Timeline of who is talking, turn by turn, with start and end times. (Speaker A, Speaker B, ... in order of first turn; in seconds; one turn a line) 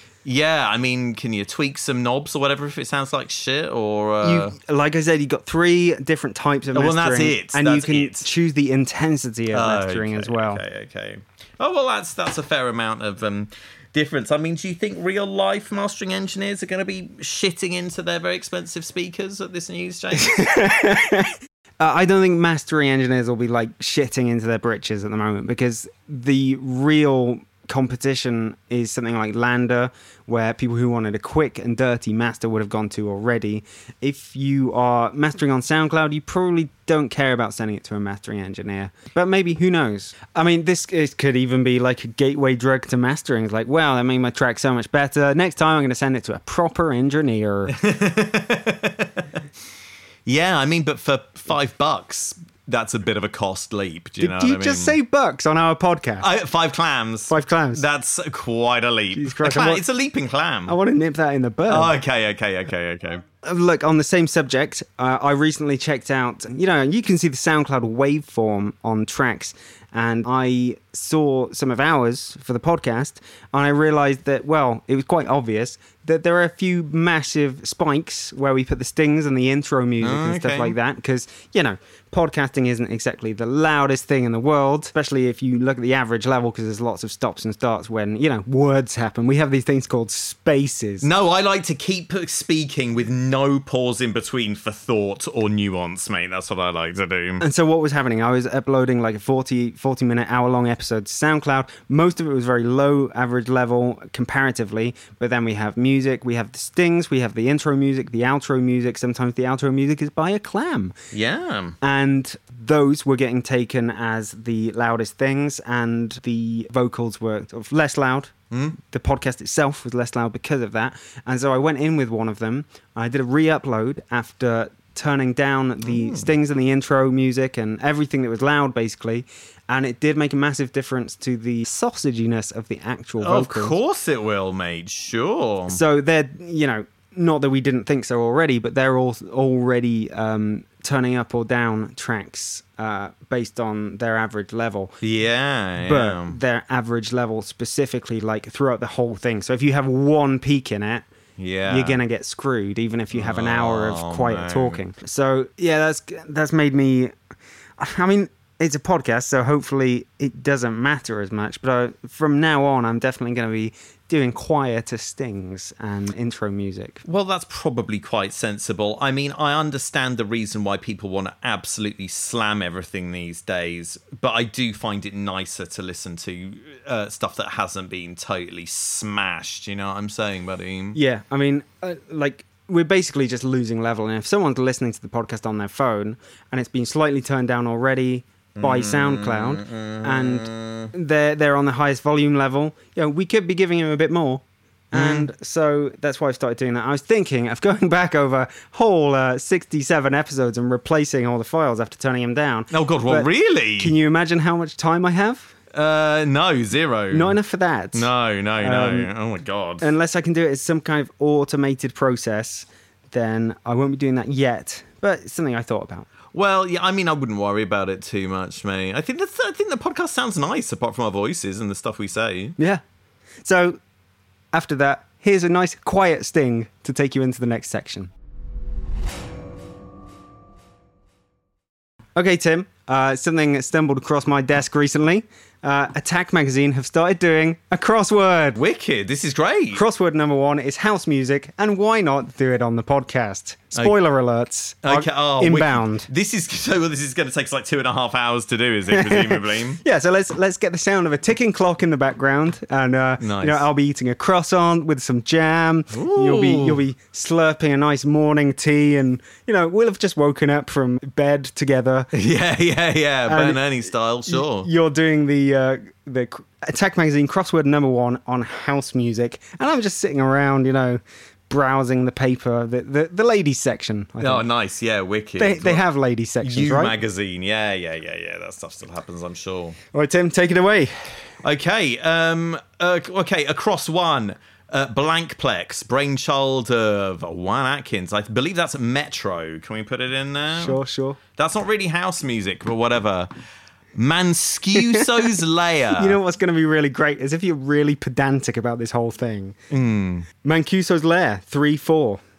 Speaker A: 0.2-4.5
Speaker B: 4.2-10.6
Speaker A: 6.7-8.3
Speaker A: 9.5-20.6
Speaker B: 20.2-47.7
Speaker A: 47.7-49.3
Speaker A: 50.2-55.0
Speaker B: 54.2-56.3
Speaker A: 56.2-60.8
Speaker B: 57.3-57.8
Speaker B: 59.1-59.8
Speaker B: 60.7-61.9
Speaker A: 61.7-63.2
Speaker B: 63.4-91.1
Speaker A: 80.0-80.8
Speaker A: 91.0-97.4
Speaker B: 97.4-111.0
Speaker A: 111.1-111.8
Speaker B: 111.8-133.8
Speaker A: 118.5-118.8
Speaker A: 125.8-126.3
Speaker A: 133.2-135.8
Speaker B: 135.7-145.0
Speaker A: 145.0-146.4
Speaker B: 145.8-151.1
Speaker A: 151.4-152.0
Speaker B: 151.7-157.1
Speaker A: 153.1-154.8
Speaker B: 157.8-167.0
Speaker A: 167.0-181.0
Speaker B: 180.9-205.5
Speaker A: 188.6-190.9
Speaker A: 194.9-195.3
Speaker A: 202.7-203.9
Speaker A: 205.7-207.3
Speaker B: 207.1-208.1
Speaker A: 207.9-209.9
Speaker B: 208.6-209.1
Speaker B: 209.8-216.1
Speaker A: 216.3-222.6
Speaker B: 223.4-223.8
Speaker B: 224.5-228.1
Speaker B: 232.2-238.6
Speaker A: 238.6-239.8
Speaker B: 239.7-246.1
Speaker A: 244.8-249.8
Speaker B: 248.9-262.1
Speaker A: 253.2-253.7
Speaker A: 255.9-256.8
Speaker A: 262.1-264.7
Speaker B: 263.3-263.6
Speaker B: 264.3-274.4
Speaker A: 274.2-275.8
Speaker B: 275.4-276.9
Speaker A: 276.4-279.8
Speaker B: 279.9-281.1
Speaker A: 281.4-290.8
Speaker B: 290.6-291.2
Speaker A: 291.4-293.3
Speaker A: 293.9-296.2
Speaker B: 294.8-295.1
Speaker B: 295.9-299.6
Speaker A: 299.7-300.3
Speaker B: 300.4-302.2